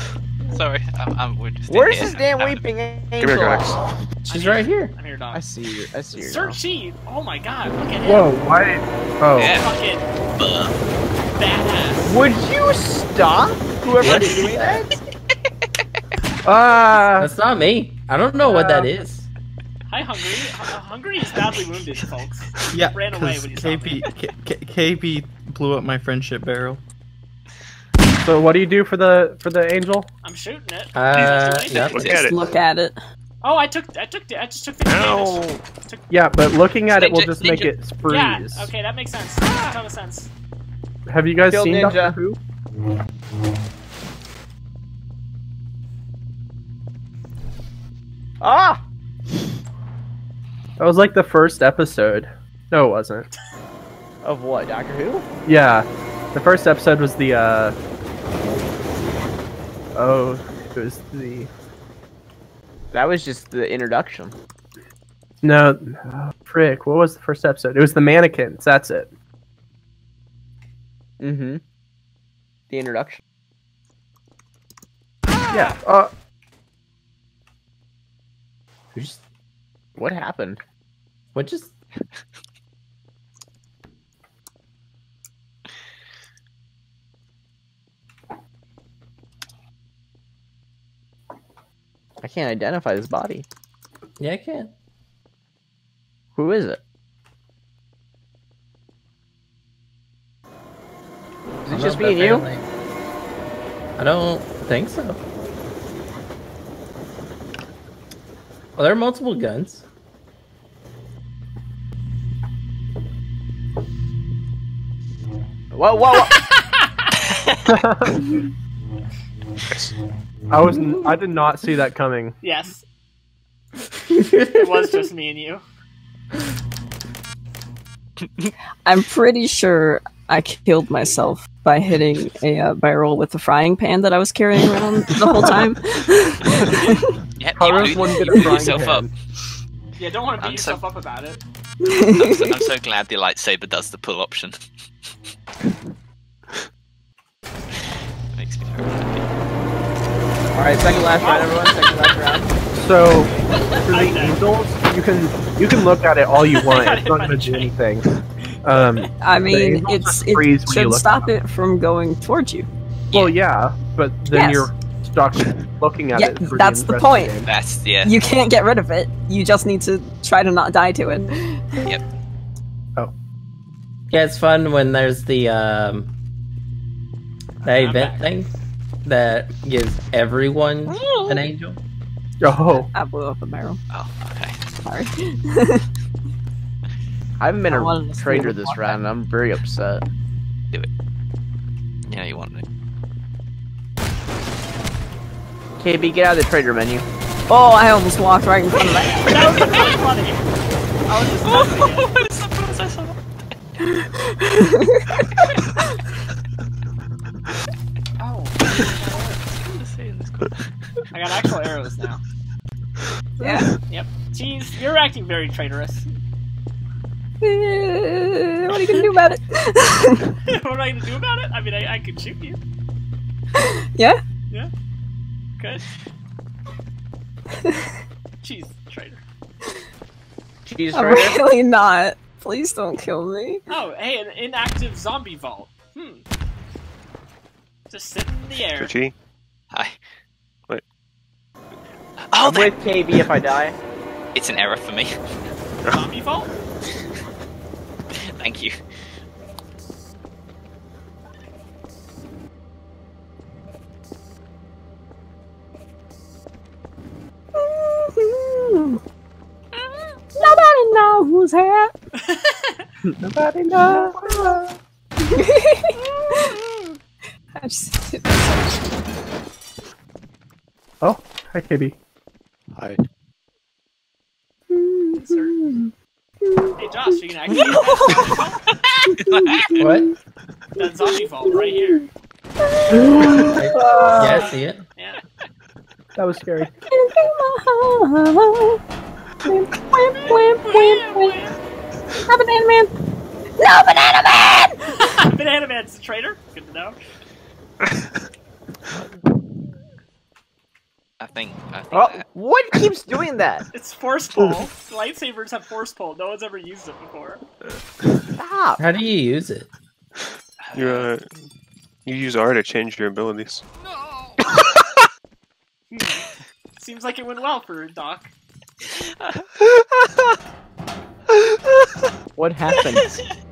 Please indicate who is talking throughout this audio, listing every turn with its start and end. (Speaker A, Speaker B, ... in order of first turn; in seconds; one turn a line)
Speaker A: 0.5-2.6
Speaker B: 1.7-3.7
Speaker C: 3.2-3.8
Speaker D: 4.2-5.4
Speaker E: 4.3-4.9
Speaker B: 5.3-6.6
Speaker D: 6.1-8.3
Speaker F: 8.0-9.5
Speaker A: 9.3-9.7
Speaker D: 9.5-10.1
Speaker A: 10.3-10.8
Speaker D: 11.3-12.2
Speaker B: 12.1-14.9
Speaker E: 14.0-14.9
Speaker F: 16.4-17.3
Speaker E: 17.2-19.3
Speaker F: 18.4-18.9
Speaker D: 19.9-24.1
Speaker G: 22.7-26.8
Speaker F: 28.2-30.1
Speaker D: 30.2-32.2
Speaker E: 30.9-32.2
Speaker C: 31.1-32.6
Speaker H: 32.1-33.0
Speaker D: 33.4-36.1
Speaker C: 34.9-35.6
Speaker F: 36.1-38.7
Speaker A: 36.9-37.7
Speaker D: 38.0-40.3
Speaker F: 41.1-42.4
Speaker B: 41.5-42.2
Speaker B: 48.4-48.8
Speaker F: 50.8-53.3
Speaker B: 54.2-55.2
Speaker F: 55.4-57.8
Speaker F: 60.0-61.5
Speaker B: 62.9-64.3
Speaker F: 65.4-69.1
Speaker B: 71.2-71.6
Speaker B: 72.7-73.2
Speaker F: 75.5-76.1
Speaker E: 78.9-79.2
Speaker B: 80.0-80.6
Speaker E: 81.3-81.7
Speaker B: 92.2-93.4
Speaker E: 94.2-94.7
Speaker B: 96.3-96.8
Speaker B: 101.6-102.5
Speaker E: 101.7-102.6
Speaker E: 104.0-105.2
Speaker E: 108.8-109.8
Speaker B: 115.7-116.4
Speaker D: 116.2-117.5
Speaker F: 117.7-118.3
Speaker C: 119.7-119.9
Speaker F: 120.5-122.4
Speaker D: 122.4-122.8
Speaker D: 124.5-125.6
Speaker A: 128.2-128.5
Speaker H: 128.8-137.1
Speaker A: 137.4-139.1
Speaker F: 137.6-139.1
Speaker D: 140.0-141.4
Speaker A: 140.4-140.8
Speaker H: 141.8-142.5
Speaker A: 142.1-144.6
Speaker A: 148.3-149.3
Speaker B: 150.5-152.5
Speaker D: 150.9-151.8
Speaker F: 152.7-158.1
Speaker D: 153.1-154.4
Speaker D: 156.4-157.7
Speaker F: 158.6-161.3
Speaker D: 158.7-159.1
Speaker H: 159.2-162.7
Speaker A: 163.1-163.4
Speaker F: 163.1-167.5
Speaker H: 164.3-164.7
Speaker H: 166.1-167.4
Speaker A: 167.4-168.1
Speaker H: 168.0-171.9
Speaker E: 174.1-176.1
Speaker D: 177.6-178.3
Speaker E: 177.6-178.5
Speaker E: 179.0-181.8
Speaker H: 180.9-181.3
Speaker F: 182.4-182.9
Speaker H: 182.7-183.8
Speaker A: 183.9-184.6
Speaker H: 184.8-185.9
Speaker B: 187.4-190.0
Speaker H: 187.7-189.0
Speaker A: 192.1-192.6
Speaker B: 195.8-197.1
Speaker H: 197.5-199.7
Speaker D: 199.2-200.4
Speaker A: 199.6-199.9
Speaker D: 201.1-202.1
Speaker A: 201.4-203.2
Speaker H: 203.9-205.4
Speaker D: 208.2-209.5
Speaker A: 209.7-210.7
Speaker D: 211.1-212.2
Speaker D: 213.4-216.1
Speaker H: 213.4-213.7
Speaker H: 217.4-220.3
Speaker D: 218.8-219.1
Speaker D: 220.4-222.6
Speaker H: 223.6-224.2
Speaker D: 225.6-225.8
Speaker D: 228.4-229.2
Speaker B: 230.6-231.4
Speaker H: 230.9-233.6
Speaker D: 233.7-236.2
Speaker D: 237.9-238.9
Speaker C: 238.7-239.1
Speaker A: 239.7-240.0
Speaker A: 242.3-243.2
Speaker B: 242.4-243.8
Speaker A: 244.3-245.2
Speaker D: 245.8-246.5
Speaker A: 248.2-248.8
Speaker H: 257.5-259.0
Speaker H: 260.4-261.9
Speaker D: 262.2-262.9
Speaker F: 263.2-264.6
Speaker H: 263.7-266.5
Speaker D: 266.1-267.0
Speaker H: 267.6-268.8
Speaker F: 271.0-272.0
Speaker G: 272.7-273.0
Speaker H: 274.7-275.9
Speaker D: 275.1-275.5
Speaker H: 276.4-276.7
Speaker D: 276.8-278.8
Speaker H: 277.5-278.4
Speaker H: 279.1-280.1
Speaker A: 279.3-279.8
Speaker E: 279.8-280.1
Speaker D: 280.8-282.1
Speaker H: 281.5-282.0
Speaker H: 282.6-284.5
Speaker F: 282.9-283.5
Speaker E: 283.5-284.8
Speaker D: 284.2-285.2
Speaker F: 286.1-286.7
Speaker H: 286.8-288.8
Speaker H: 289.4-291.3
Speaker D: 290.2-291.6
Speaker H: 292.3-292.9
Speaker H: 293.6-294.8
Speaker D: 294.9-297.0
Speaker A: 301.2-302.2
Speaker B: 301.9-303.7
Speaker D: 303.7-307.4
Speaker B: 308.4-308.8
Speaker E: 308.8-309.7
Speaker A: 310.6-311.1
Speaker C: 310.7-311.4
Speaker C: 312.0-313.6
Speaker D: 315.9-316.2
Speaker D: 316.8-318.3
Speaker A: 319.0-319.4
Speaker B: 322.4-323.1